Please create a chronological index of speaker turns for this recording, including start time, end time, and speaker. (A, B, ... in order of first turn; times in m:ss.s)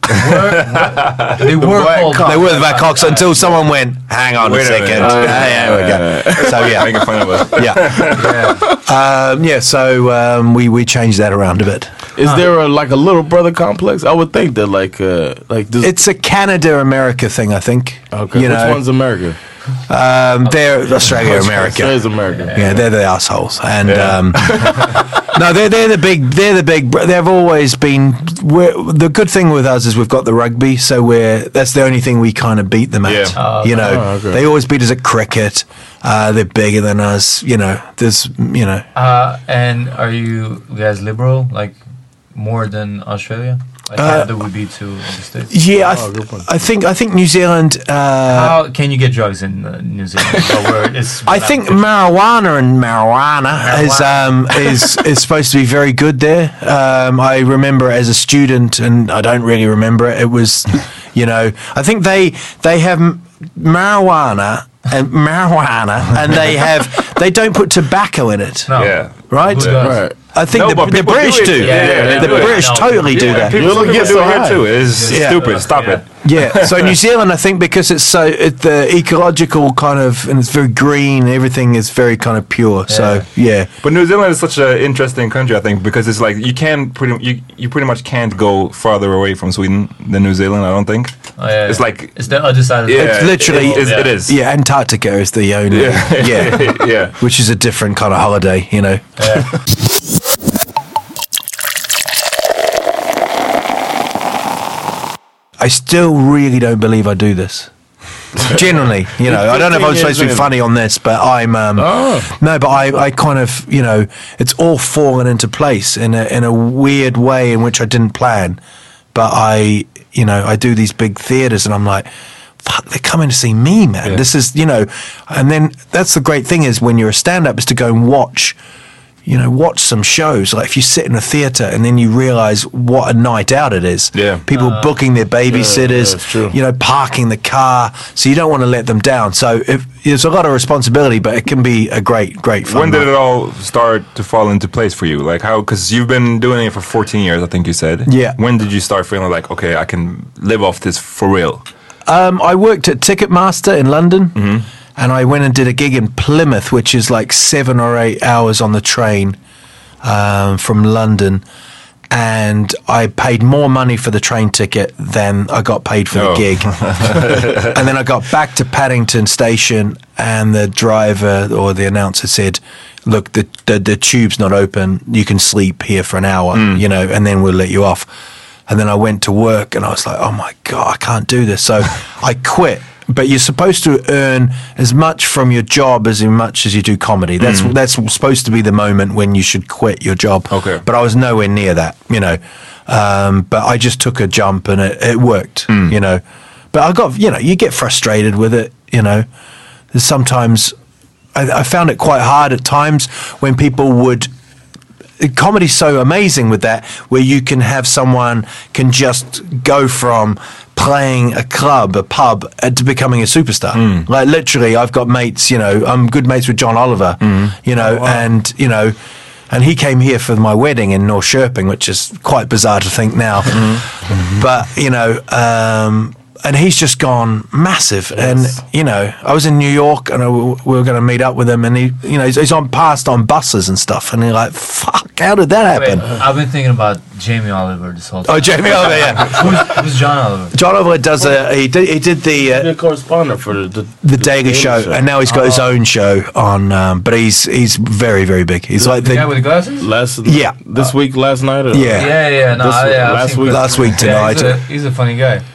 0:00.2-0:03.4 A
0:00.8-0:01.3 B
0:01.6-0:02.4 C
0:02.1-0:08.2 D
0:04.4-0:08.3 B
0:05.0-0:06.9 C
0:08.2-0:08.6 A
0:08.8-0:11.9 D
0:12.2-0:16.0 C
0:15.8-0:18.8 D
0:18.1-0:19.4 C
0:19.9-0:22.0 D
0:21.1-0:22.6 C
0:22.3-0:22.8 A
0:22.5-0:38.9 D
0:23.8-0:25.0 B
0:24.4-0:24.8 C
0:33.0-0:33.4 B
0:33.4-0:34.0 A
0:33.8-0:34.4 C
0:39.0-0:41.8 A
0:42.3-0:45.6 A
0:44.0-0:44.3 D
0:45.5-0:48.6 D
0:45.8-0:46.5 C
0:48.3-0:51.8 A
0:51.2-1:13.9 D
0:53.6-0:54.7 A
1:08.7-1:10.0 A
1:08.8-1:09.8 B
1:09.8-1:10.2 C
1:10.5-1:17.0 B
1:11.6-1:16.0 A
1:11.7-1:12.5 C
1:13.4-1:14.7 C
1:15.1-1:15.6 D
1:16.2-1:23.7 D
1:22.9-1:23.3 A
1:23.8-1:34.4 B
1:31.4-1:34.2 A
1:33.0-1:39.1 D
1:35.7-1:37.2 B
1:39.2-1:39.5 A
1:45.6-1:47.7 D
1:48.4-1:58.6 D
1:49.2-1:50.5 C
1:51.8-1:52.3 C
1:59.1-2:02.1 D
2:02.6-2:08.6 D
2:09.2-2:23.1 D
2:14.2-2:14.4 B
2:14.5-2:14.9 A
2:15.5-2:16.6 C
2:22.6-2:31.7 B
2:28.1-2:28.4 D
2:32.1-2:34.4 D
2:34.4-2:34.7 B
2:35.0-2:39.4 D
2:40.0-2:41.4 D
2:42.1-2:58.1 D
2:46.1-2:47.7 B
2:56.5-2:56.8 B
2:58.7-3:16.2 D
3:07.4-3:07.7 B
3:10.5-3:10.8 B
3:16.7-3:19.3 D
3:19.9-3:20.8 D
3:21.3-3:24.3 D
3:25.2-3:39.0 D
3:33.7-3:34.1 B
3:37.8-3:38.2 A
3:39.5-3:56.1 D
3:43.6-3:43.8 B
3:55.7-4:00.5 A
3:58.2-3:59.7 D
4:00.5-4:02.7 D
4:02.4-4:05.0 C
4:04.0-4:09.3 D
4:05.2-4:05.7 A
4:08.9-4:09.9 A
4:09.8-4:13.8 C
4:10.2-4:10.7 D
4:11.7-4:12.1 D
4:11.9-4:15.4 A
4:13.5-4:14.6 D